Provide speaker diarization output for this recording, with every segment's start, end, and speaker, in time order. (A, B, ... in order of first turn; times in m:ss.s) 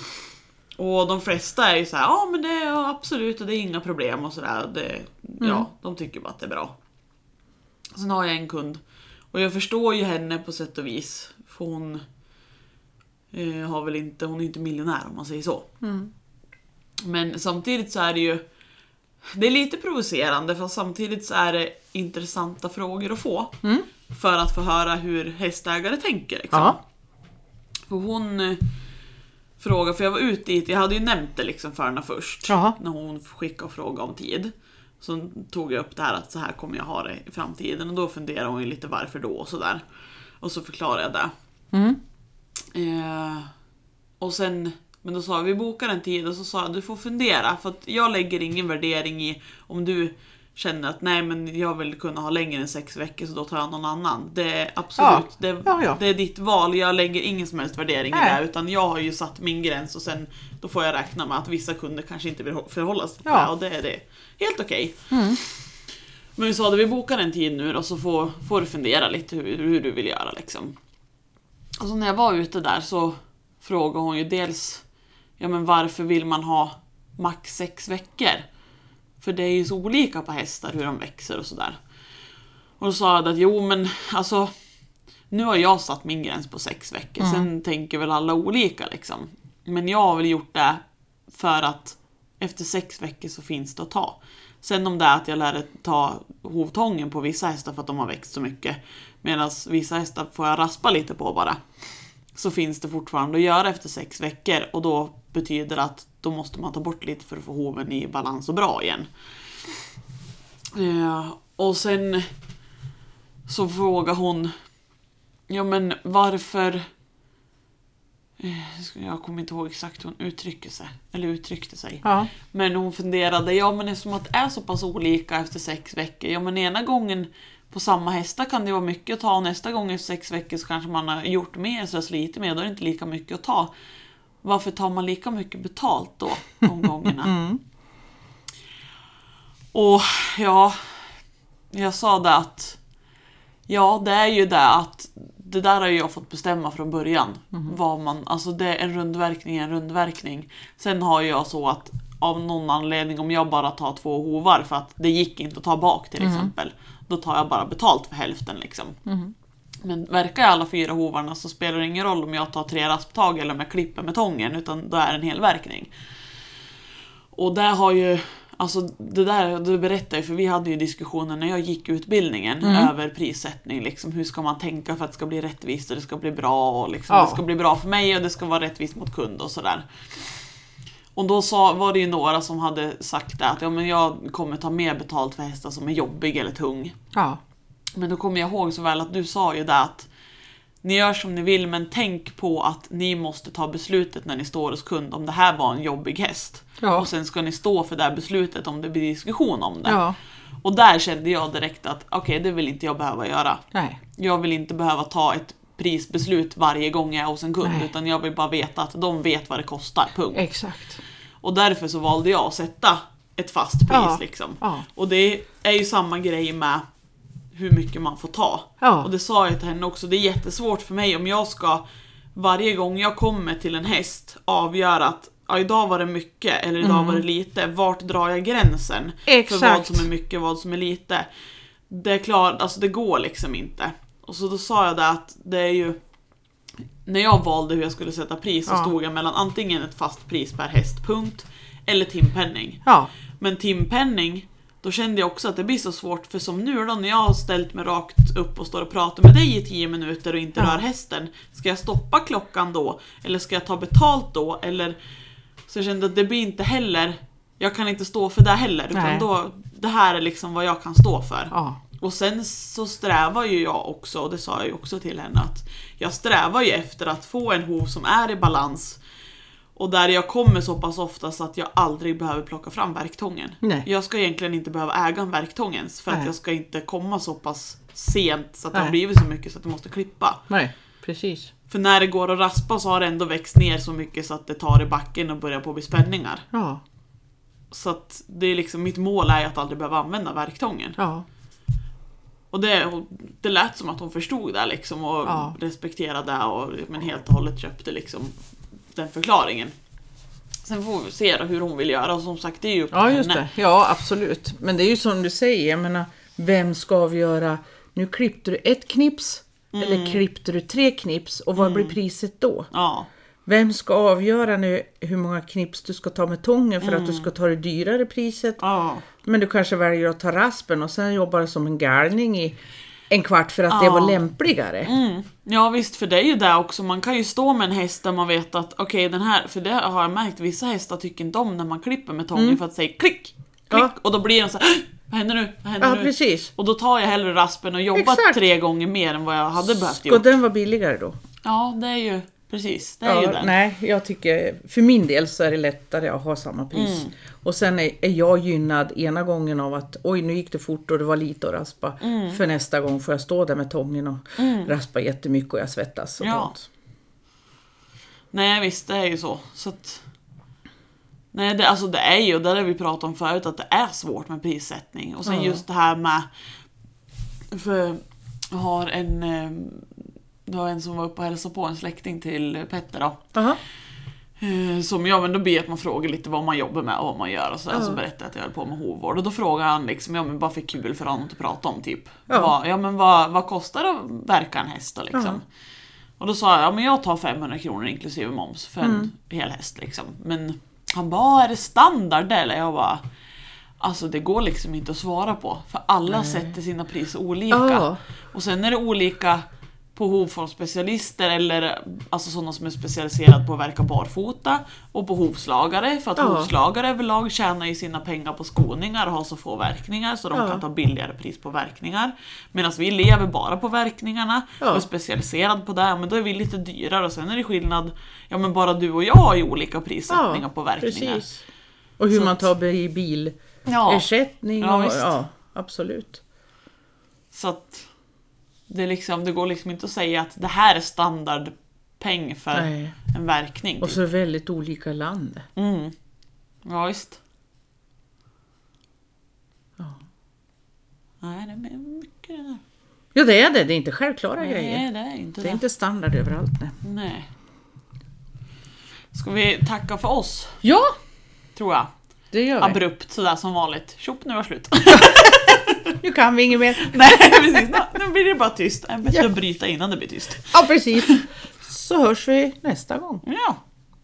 0:00.8-0:06.8 A
0:05.4-0:05.7 B
0:07.9-0:08.8 A
0:09.3-0:12.0 A
0:13.3-0:15.7 A
0:15.8-0:16.1 B
0:17.0-0:18.4 A
0:19.3-0:23.6 A
0:24.1-0:26.8 A
0:26.5-0:26.8 B
0:27.9-0:28.6 A
0:29.6-0:39.8 A
0:32.5-0:32.8 B
0:40.4-0:41.3 A
0:41.7-0:42.0 B
0:42.7-0:43.5 A
0:44.2-1:05.5 A
0:55.0-0:56.0 B
0:58.1-0:58.4 B
1:03.3-1:03.5 B
1:05.1-1:05.4 B
1:06.4-1:10.7 A
1:11.8-1:14.8 A
1:15.4-1:18.5 A
1:19.2-1:21.8 A
1:22.8-1:24.5 A
1:25.3-1:41.6 A
1:27.2-1:27.5 B
1:42.3-1:49.1 A
1:50.7-1:52.3 A
1:53.5-1:54.6 A
1:55.5-1:56.9 A
1:58.4-2:13.7 A
2:02.0-2:02.3 B
2:14.4-2:17.4 A
2:17.0-2:17.6 B
2:19.7-2:21.1 A
2:21.7-2:22.8 A
2:23.7-2:39.0 A
2:36.2-2:36.5 B
2:39.1-2:39.3 B
2:39.8-2:45.9 A
2:47.3-2:59.9 A
2:52.6-2:52.9 B
2:57.1-2:57.4 B
3:01.2-3:07.0 A
3:07.1-3:07.4 B
3:08.0-3:10.1 A
3:10.8-3:20.0 A
3:16.8-3:17.1 B
3:19.8-3:20.2 B
3:20.6-3:23.6 A
3:23.7-3:24.0 B
3:24.2-3:30.5 A
3:27.6-3:27.9 B
3:30.3-3:31.0 B
3:31.4-3:36.8 A
3:33.9-3:34.9 B
3:37.6-3:41.8 A
3:38.8-3:39.1 B
3:42.4-3:51.3 A
3:46.8-3:47.2 B
3:49.3-3:50.1 B
3:51.9-3:56.0 A
3:57.0-4:02.8 A
3:58.7-3:58.9 B
4:02.8-4:03.1 B
4:03.4-4:15.0 A
4:15.7-4:29.0 A
4:18.9-4:19.3 B
4:21.5-4:21.8 B
4:29.8-4:40.4 A
4:33.6-4:33.9 B
4:40.5-4:41.5 B
4:41.7-4:46.5 A
4:46.5-4:46.8 B
4:47.7-4:51.0 A
4:51.0-4:51.3 B
4:52.5-4:58.3 A
4:55.2-4:55.6 B
4:59.0-4:59.8 A
5:00.6-5:03.4 A
5:02.9-5:12.7 B
5:09.7-5:10.2 A
5:11.6-5:12.0 A
5:12.7-5:13.1 A
5:13.5-5:18.6 B
5:16.8-5:17.3 A
5:18.6-5:19.1 A
5:19.2-5:22.6 B
5:23.1-5:24.9 B
5:23.7-5:24.2 A
5:24.8-5:40.3 A
5:32.3-5:32.6 B
5:35.8-5:36.5 B
5:38.0-5:38.4 B
5:39.7-5:41.2 B
5:41.4-5:43.5 A
5:43.0-5:56.7 B
5:46.7-5:47.1 A
5:52.0-5:52.4 A
5:54.4-5:54.7 A
5:56.2-5:56.5 A
5:58.3-6:00.0 A
6:01.3-6:06.3 A
6:05.3-6:05.6 B
6:07.5-6:13.2 A
6:13.3-6:13.6 B
6:14.4-6:25.4 A
6:17.7-6:18.0 B
6:25.1-6:25.4 B
6:26.2-6:33.0 A
6:28.8-6:29.1 B
6:33.8-6:39.4 A
6:36.1-6:36.5 B
6:37.5-6:38.0 B
6:40.0-7:01.3 A
6:46.2-6:46.5 B
6:50.3-6:50.6 B
7:00.1-7:01.4 B
7:02.0-7:03.4 B
7:02.1-7:02.5 A
7:03.7-7:04.1 A
7:03.9-7:06.2 B
7:04.6-7:05.1 A
7:07.3-7:07.9 A
7:08.7-7:14.0 A
7:12.5-7:13.0 B
7:13.8-7:15.5 B
7:15.6-7:16.0 A
7:16.6-7:17.2 A
7:21.2-7:22.6 A
7:23.2-7:24.8 B
7:24.4-7:25.6 A
7:25.4-7:26.8 B
7:26.8-7:27.3 A
7:29.1-7:30.6 A
7:30.6-7:30.9 B
7:31.6-7:31.9 A
7:32.3-7:32.8 B
7:32.6-7:36.0 A
7:34.9-7:37.8 B
7:36.8-7:41.2 A
7:40.5-7:43.2 B
7:43.2-7:43.6 A